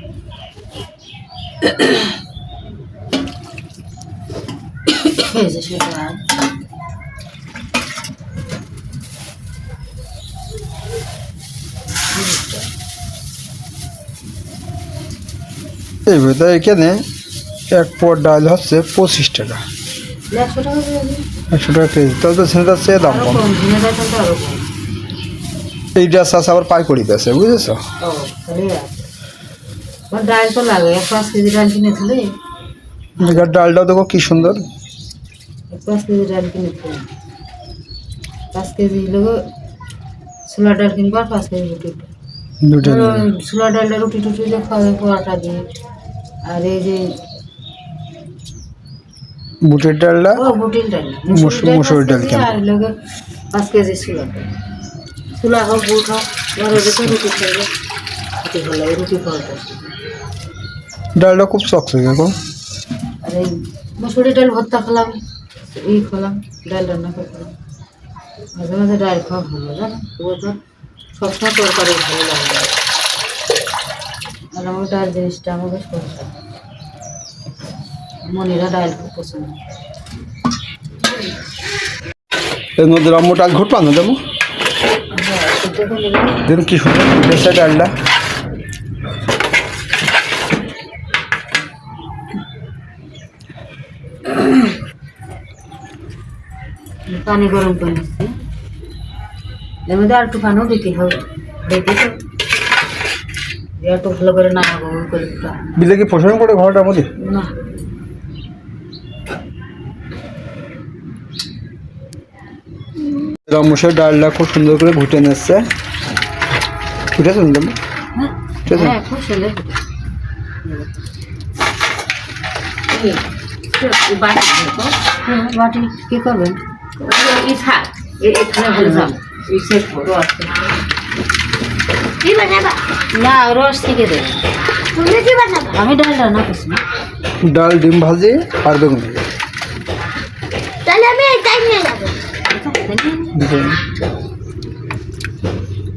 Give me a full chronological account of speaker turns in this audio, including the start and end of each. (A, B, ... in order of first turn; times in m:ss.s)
0:05.0-0:06.2 A
0:12.1-0:12.7 A
0:16.1-0:17.0 B
0:17.7-0:19.6 B
0:20.3-0:21.2 A
0:21.5-0:23.4 B
0:23.0-0:24.6 A
0:26.0-0:27.8 B
0:28.0-0:29.0 A
0:30.1-0:32.3 A
0:33.2-0:33.5 A
0:33.2-0:34.6 B
0:35.7-0:37.1 A
0:38.5-0:39.4 A
0:40.5-0:42.1 A
0:42.6-0:43.3 B
0:42.9-0:45.6 A
0:46.5-0:47.1 A
0:49.6-0:50.4 B
0:50.4-0:52.9 A
0:51.3-0:52.6 B
0:53.5-0:54.5 A
0:55.4-0:57.7 A
0:56.7-0:57.2 B
0:58.4-0:59.9 A
1:01.2-1:02.4 B
1:03.2-1:05.2 A
1:05.8-1:07.5 A
1:08.6-1:10.6 A
1:11.2-1:12.7 A
1:14.5-1:16.3 A
1:18.3-1:19.6 A
1:22.8-1:24.2 B
1:25.1-1:26.4 A
1:26.5-1:27.9 B
1:37.1-1:38.3 A
1:39.9-1:42.2 A
1:43.8-1:45.6 A
1:45.8-1:47.1 B
1:47.2-1:47.5 A
1:53.5-1:55.7 B
1:57.2-1:57.8 B
1:58.2-1:59.8 A
1:58.7-1:59.0 B
2:00.6-2:01.0 A
2:03.8-2:06.6 A
2:07.1-2:10.5 A
2:12.2-2:12.8 C
2:13.1-2:14.4 A
2:14.9-2:15.8 C
2:15.7-2:16.8 A
2:17.4-2:19.2 B
2:20.8-2:22.2 C
2:22.5-2:23.4 A
2:23.3-2:23.8 B